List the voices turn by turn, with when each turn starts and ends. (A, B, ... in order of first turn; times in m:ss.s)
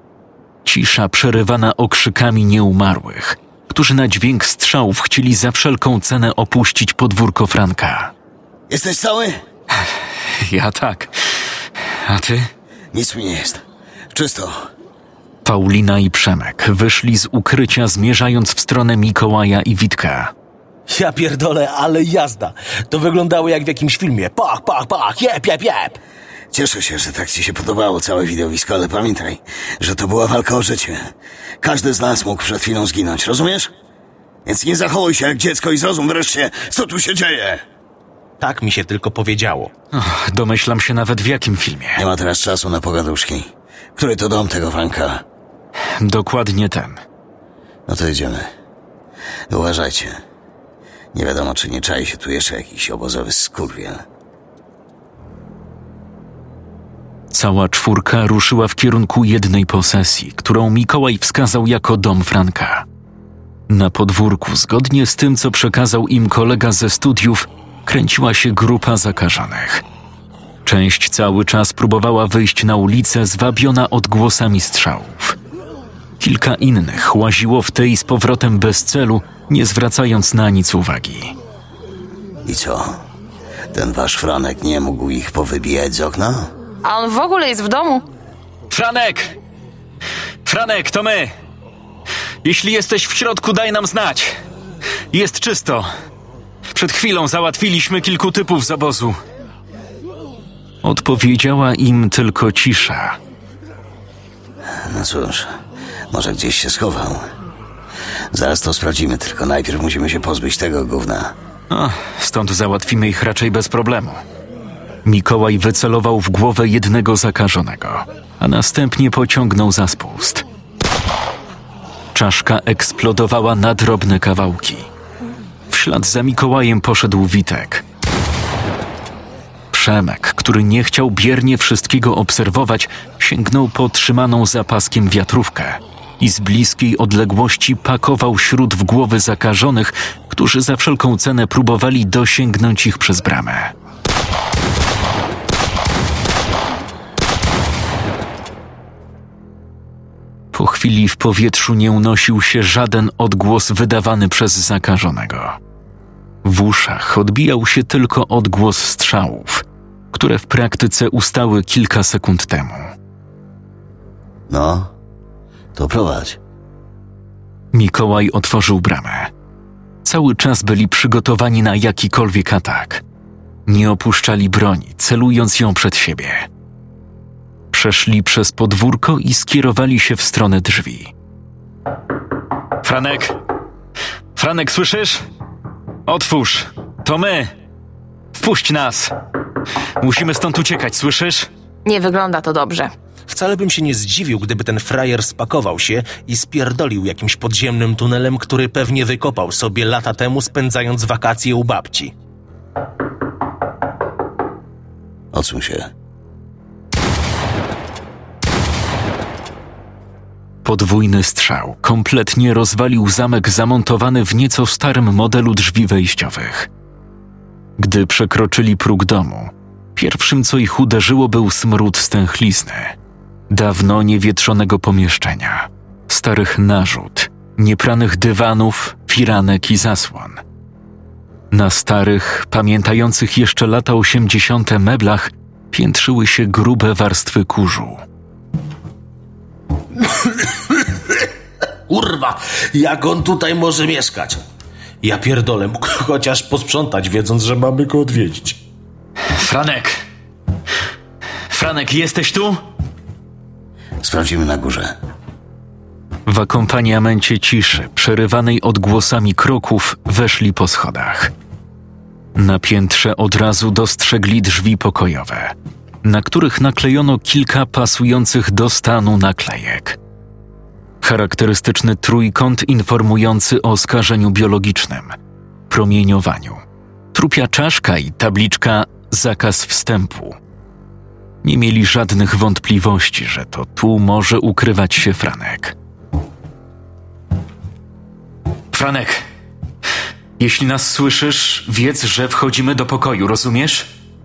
0:00.6-0:08.1 A
0:08.7-0:09.4 B
0:09.8-0:12.5 A
0:12.9-0:14.6 B
0:15.4-0:20.3 A
0:20.9-0:26.0 C
0:26.5-0:33.7 B
0:34.4-0:37.6 B
0:38.4-0:39.7 C
0:39.9-0:42.0 A
0:42.0-0:45.2 B
0:46.0-0:47.0 A
0:47.9-0:48.5 B
0:49.5-0:50.2 B
0:51.1-0:54.0 B
0:57.3-1:02.9 A
1:03.7-1:09.8 A
1:10.6-1:15.4 A
1:16.2-1:21.4 A
1:22.4-1:23.0 B
1:23.7-1:26.5 B
1:26.8-1:28.1 D
1:28.7-1:29.4 A
1:30.4-1:31.3 A
1:32.4-1:34.4 A
1:35.1-1:35.9 A
1:36.7-1:39.2 A
1:40.8-1:43.2 A
1:44.7-1:45.5 B
1:46.1-1:47.2 B
1:48.3-1:51.4 B
1:51.7-1:54.2 A
1:55.0-2:00.4 A
2:02.1-2:04.9 A
2:05.7-2:07.8 A
2:09.7-2:23.7 A
2:30.5-2:35.6 A
2:36.4-2:42.9 A
2:44.5-2:44.9 B
2:45.7-2:46.4 B
2:47.7-2:49.3 A
2:50.0-2:53.0 A
2:53.6-2:56.5 A
2:57.7-3:01.1 A
3:02.8-3:03.4 A
3:04.4-3:05.2 A
3:06.1-3:07.5 A
3:08.3-3:09.1 A
3:10.0-3:11.5 A
3:11.8-3:12.9 D
3:13.3-3:22.1 C
3:25.3-3:25.9 B
3:30.6-3:36.7 A
3:37.8-3:43.0 A
3:43.5-3:50.4 A
3:51.5-3:58.0 A
4:00.1-4:00.8 C
4:01.9-4:04.4 C
4:05.0-4:08.6 C
4:09.3-4:10.0 A
4:11.5-4:12.6 A
4:14.0-4:14.9 B
4:16.2-4:21.3 A
4:22.4-4:30.0 A
4:31.0-4:35.2 A
4:35.7-4:40.4 A
4:41.4-4:45.7 A
4:48.7-4:49.2 A
4:50.4-4:53.9 A